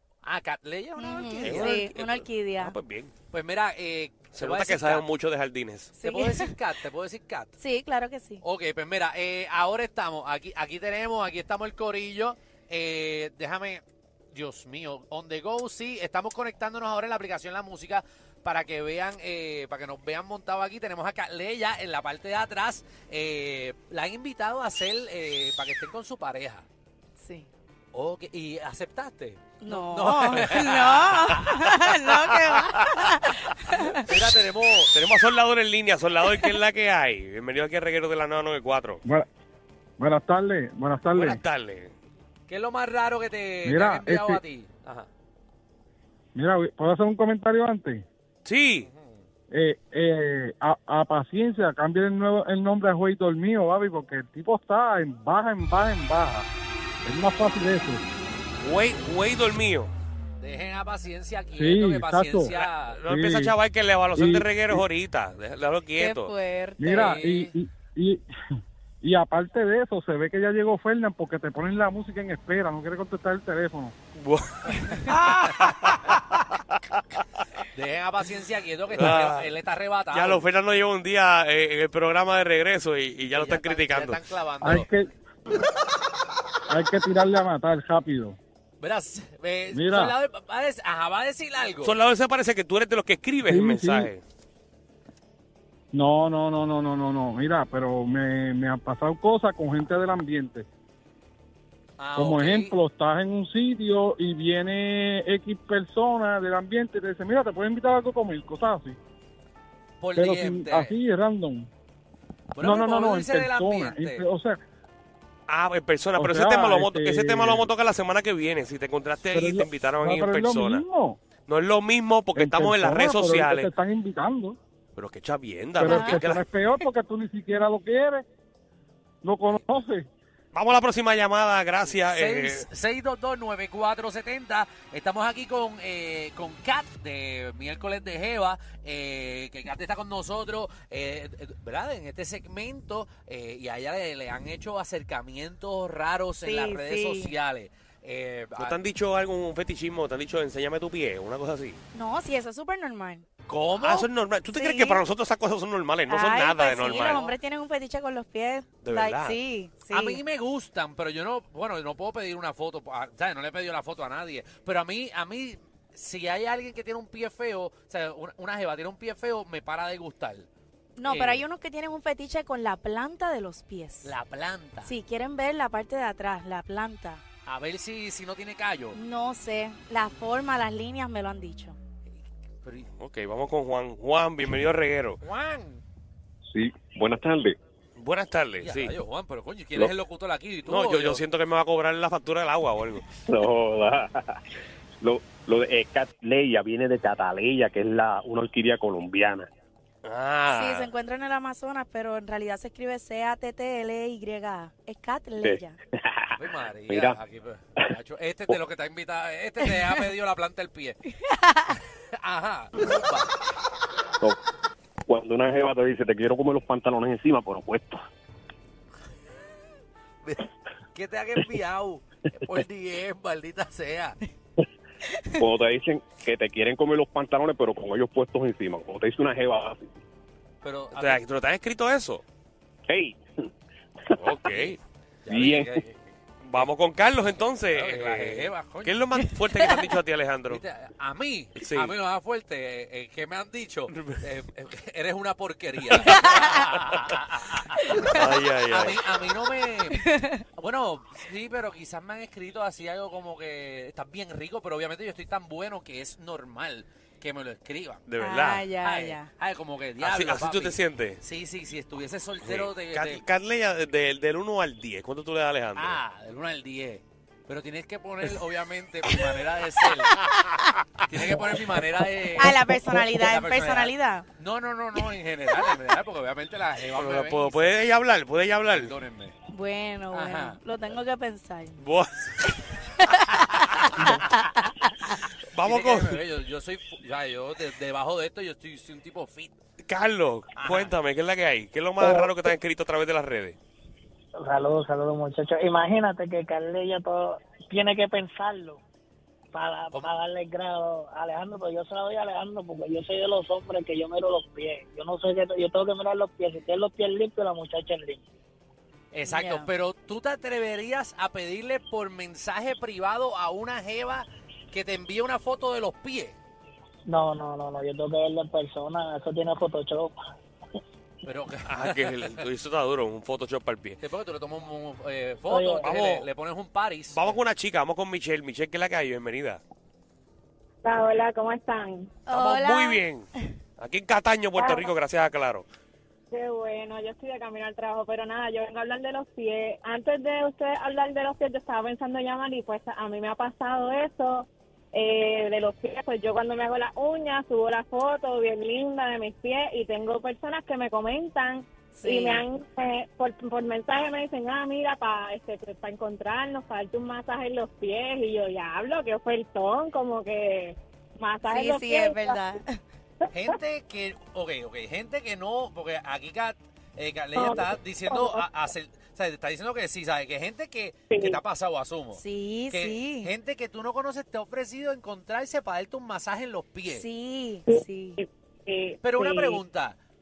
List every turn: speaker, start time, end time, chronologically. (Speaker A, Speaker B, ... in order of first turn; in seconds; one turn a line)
Speaker A: 0.2-1.9
Speaker B: 1.0-2.8
Speaker C: 1.4-3.1
Speaker A: 3.3-5.1
Speaker C: 4.3-5.9
Speaker B: 6.0-6.5
Speaker A: 6.0-7.5
Speaker B: 7.6-8.4
Speaker A: 8.4-26.7
Speaker B: 27.2-27.5
Speaker A: 27.9-31.6
Speaker B: 29.6-34.1
Speaker C: 32.1-33.0
Speaker A: 33.7-34.9
Speaker C: 34.9-39.0
Speaker D: 40.0-41.4
Speaker C: 41.1-41.9
Speaker A: 42.5-45.1
Speaker D: 43.6-44.4
Speaker D: 46.4-48.0
Speaker C: 48.5-48.9
Speaker A: 48.8-49.2
Speaker D: 49.5-56.5
Speaker D: 57.0-58.0
Speaker C: 58.6-59.9
Speaker A: 60.4-63.0
Speaker D: 61.5-62.5
Speaker C: 62.5-66.3
Speaker D: 63.0-63.5
Speaker D: 64.2-64.8
Speaker B: 66.0-67.2
Speaker D: 66.8-68.2
Speaker A: 66.9-67.5
Speaker D: 69.0-74.0
Speaker C: 74.2-77.2
Speaker A: 75.0-76.1
Speaker A: 77.7-80.5
Speaker C: 79.0-79.5
Speaker C: 80.1-84.2
Speaker A: 83.3-84.9
Speaker D: 84.6-85.1
Speaker D: 86.7-88.4
Speaker A: 88.8-92.0
Speaker D: 89.7-90.2
Speaker C: 91.8-94.2
Speaker D: 93.4-94.1
Speaker D: 95.9-100.7
Speaker A: 102.0-102.8
Speaker D: 102.2-109.0
Speaker A: 110.0-111.0
Speaker D: 110.2-111.7
Speaker A: 112.5-114.2
Speaker D: 112.6-114.6
Speaker C: 115.5-120.8
Speaker D: 116.2-117.7
Speaker D: 119.3-121.2
Speaker C: 121.5-123.7
Speaker D: 122.4-124.6
Speaker C: 125.0-126.4
Speaker D: 125.8-128.2
Speaker B: 125.8-126.2
Speaker D: 129.2-130.1
Speaker A: 129.5-129.8
Speaker C: 130.5-132.7
Speaker A: 131.9-148.8
Speaker B: 146.4-147.3
Speaker C: 148.6-151.8
Speaker B: 151.9-153.2
Speaker A: 153.5-154.1
Speaker C: 153.8-157.3
Speaker B: 154.5-155.0
Speaker B: 156.1-160.2
Speaker A: 156.7-157.4
Speaker C: 158.8-159.4
Speaker A: 159.9-170.5
Speaker B: 171.0-174.1
Speaker A: 171.1-171.5
Speaker A: 174.0-174.9
Speaker B: 174.8-177.2
Speaker A: 177.5-179.0
Speaker B: 178.9-181.8
Speaker A: 182.6-182.9
Speaker C: 183.0-185.2
Speaker A: 185.2-185.8
Speaker E: 186.5-187.6
Speaker C: 188.0-189.0
Speaker A: 188.6-191.2
Speaker C: 190.7-193.1
Speaker E: 193.3-194.4
Speaker E: 195.0-199.5
Speaker C: 200.0-200.9
Speaker B: 200.5-205.8
Speaker A: 206.4-211.0
Speaker E: 206.9-207.2
Speaker B: 211.2-211.8
Speaker A: 212.2-213.3
Speaker E: 215.1-218.0
Speaker A: 220.2-224.2
Speaker B: 225.1-225.4
Speaker E: 225.4-229.9
Speaker A: 230.6-231.2
Speaker C: 230.9-232.2
Speaker E: 232.9-233.2
Speaker E: 234.1-234.4
Speaker C: 234.2-234.8
Speaker A: 234.5-236.0
Speaker E: 235.3-235.8
Speaker C: 236.4-240.6
Speaker A: 237.7-239.1
Speaker B: 239.2-240.0
Speaker A: 240.5-258.1
Speaker C: 241.6-241.9
Speaker C: 243.9-244.2
Speaker C: 247.9-249.0
Speaker B: 249.9-250.4
Speaker C: 258.1-258.7
Speaker B: 258.2-259.3
Speaker A: 258.8-263.2
Speaker C: 260.0-261.2
Speaker C: 262.4-266.0
Speaker A: 265.7-270.3
Speaker B: 270.2-270.7
Speaker A: 271.0-277.8
Speaker B: 272.3-274.3
Speaker C: 277.0-278.9
Speaker A: 278.7-279.4
Speaker B: 279.5-281.8
Speaker A: 280.1-281.0
Speaker C: 281.8-282.6
Speaker B: 282.9-284.9
Speaker A: 283.6-284.2
Speaker C: 285.1-286.2
Speaker A: 285.6-289.6
Speaker C: 289.8-293.6
Speaker A: 290.6-290.9
Speaker F: 292.0-292.3
Speaker F: 294.4-298.8
Speaker F: 299.5-308.2
Speaker A: 309.1-316.4
Speaker B: 309.2-309.7
Speaker F: 317.1-320.2
Speaker A: 321.2-322.4
Speaker C: 321.7-324.0
Speaker A: 324.0-327.4
Speaker F: 325.5-326.1
Speaker C: 325.8-326.2
Speaker C: 327.1-329.6
Speaker G: 330.8-332.2
Speaker B: 332.2-333.5
Speaker C: 332.3-335.7
Speaker G: 334.6-334.9
Speaker G: 336.3-362.4
Speaker B: 351.9-352.4
Speaker B: 361.4-362.8
Speaker G: 363.2-363.6
Speaker A: 363.3-377.1
Speaker G: 367.4-368.5
Speaker G: 371.1-371.4
Speaker B: 372.1-373.3
Speaker B: 376.9-378.2
Speaker G: 377.7-379.6
Speaker A: 379.0-380.0